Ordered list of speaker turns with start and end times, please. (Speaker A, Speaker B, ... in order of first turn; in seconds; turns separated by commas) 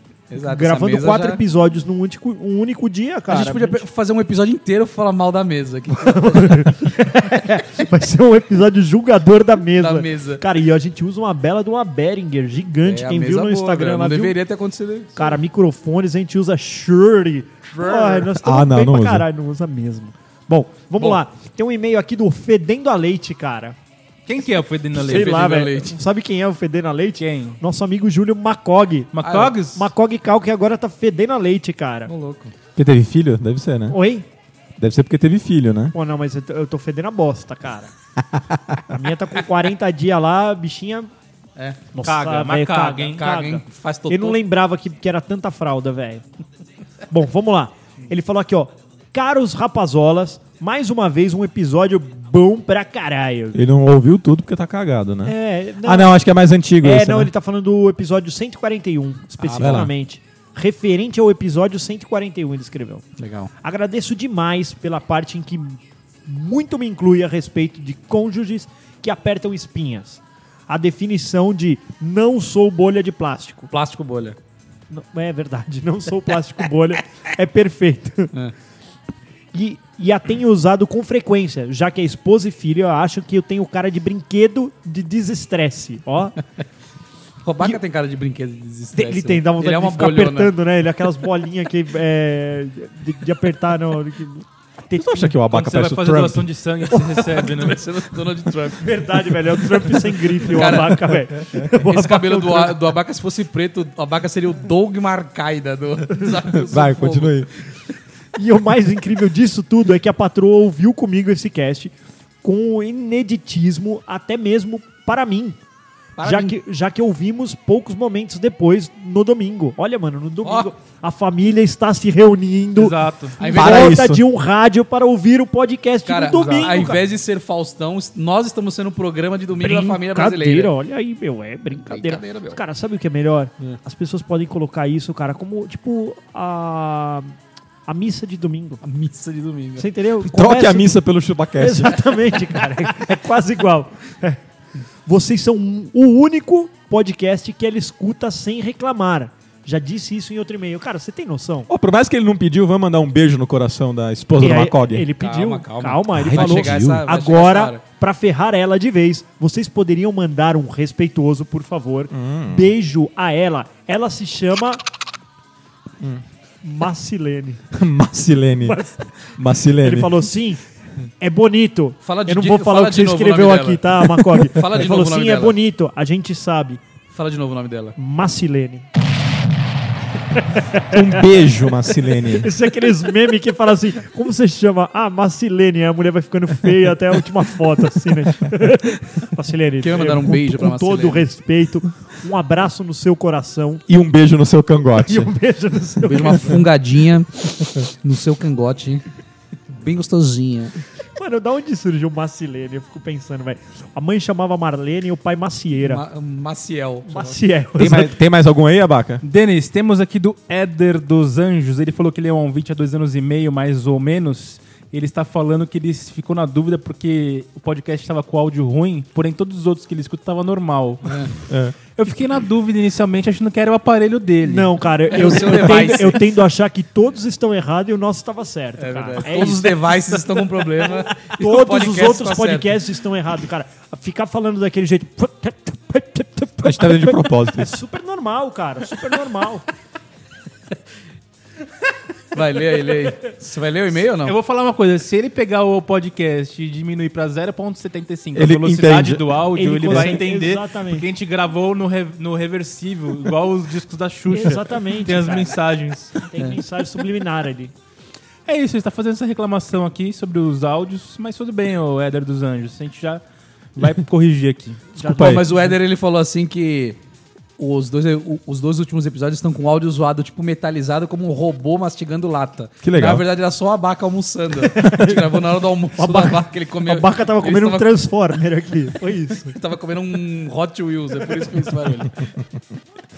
Speaker A: 0.3-1.4, Speaker B: 0.5-3.8, Speaker A: 3.3-6.8, Speaker B: 5.9-14.4, Speaker A: 9.8-10.4, Speaker A: 12.8-15.4, Speaker B: 15.2-23.8, Speaker A: 17.7-18.3, Speaker C: 18.4-19.3, Speaker D: 24.3-25.6, Speaker A: 25.0-25.9, Speaker B: 25.0-32.1, Speaker D: 27.2-27.6, Speaker D: 29.1-29.9, Speaker A: 32.1-32.5, Speaker C: 32.8-34.0, Speaker B: 33.9-34.3, Speaker C: 34.8-35.9, Speaker B: 35.9-37.9, Speaker B: 38.9-41.1, Speaker A: 41.6-41.8, Speaker B: 41.9-46.2, Speaker D: 42.0-43.3, Speaker A: 43.2-44.4, Speaker B: 47.1-53.6, Speaker C: 53.5-57.3, Speaker B: 55.2-56.2, Speaker B: 56.8-63.0, Speaker A: 59.4-59.9, Speaker C: 59.6-59.9, Speaker A: 63.2-63.5, Speaker B: 63.6-73.7, Speaker A: 73.7-74.4, Speaker B: 74.9-78.3, Speaker B: 79.5-86.4, Speaker A: 87.4-90.5, Speaker B: 89.0-95.3, Speaker C: 95.0-96.5, Speaker D: 95.3-97.8, Speaker A: 97.3-99.2, Speaker B: 98.8-102.8, Speaker A: 99.8-107.5, Speaker C: 106.6-107.5, Speaker B: 108.4-115.6, Speaker A: 116.2-116.5, Speaker B: 116.2-127.0, Speaker A: 120.4-120.7, Speaker D: 122.8-123.4, Speaker A: 123.4-124.0, Speaker C: 123.5-124.2, Speaker A: 126.1-130.7, Speaker B: 129.6-137.3, Speaker A: 131.8-132.6, Speaker B: 137.9-138.8, Speaker A: 138.8-139.9, Speaker B: 139.8-140.9, Speaker C: 140.3-142.0, Speaker B: 141.6-144.4, Speaker B: 145.1-151.7, Speaker C: 151.7-155.1, Speaker B: 154.4-164.8, Speaker A: 155.2-157.8, Speaker C: 156.1-157.1, Speaker C: 162.1-162.7, Speaker B: 166.6-167.6, Speaker C: 167.7-170.3, Speaker B: 168.6-169.1, Speaker B: 169.8-170.6, Speaker B: 171.2-176.8, Speaker A: 172.1-175.6, Speaker A: 177.1-178.0, Speaker B: 178.0-178.9, Speaker B: 180.3-181.4, Speaker C: 180.9-182.5, Speaker B: 182.3-193.8, Speaker A: 189.8-191.3, Speaker C: 193.9-195.3, Speaker B: 195.0-196.7, Speaker A: 196.1-199.0, Speaker A: 199.7-200.8, Speaker B: 201.2-206.0, Speaker A: 205.8-207.4, Speaker B: 207.1-208.2, Speaker C: 207.8-209.2, Speaker D: 209.2-221.3, Speaker C: 221.5-221.8, Speaker D: 221.9-224.7, Speaker B: 224.4-229.9, Speaker A: 225.1-226.3, Speaker A: 228.8-232.7, Speaker D: 229.6-230.2, Speaker B: 231.2-239.7, Speaker C: 236.6-237.8, Speaker A: 242.3-244.4, Speaker D: 244.2-256.2, Speaker C: 248.3-250.1, Speaker B: 249.6-251.1, Speaker B: 254.3-255.6, Speaker B: 256.2-257.7, Speaker D: 258.5-263.2, Speaker D: 263.8-264.9, Speaker B: 265.0-265.6, Speaker C: 265.1-265.4, Speaker A: 265.1-267.0, Speaker A: 267.6-277.9, Speaker C: 272.8-273.2, Speaker B: 274.7-275.4, Speaker B: 276.0-279.6, Speaker A: 279.5-282.1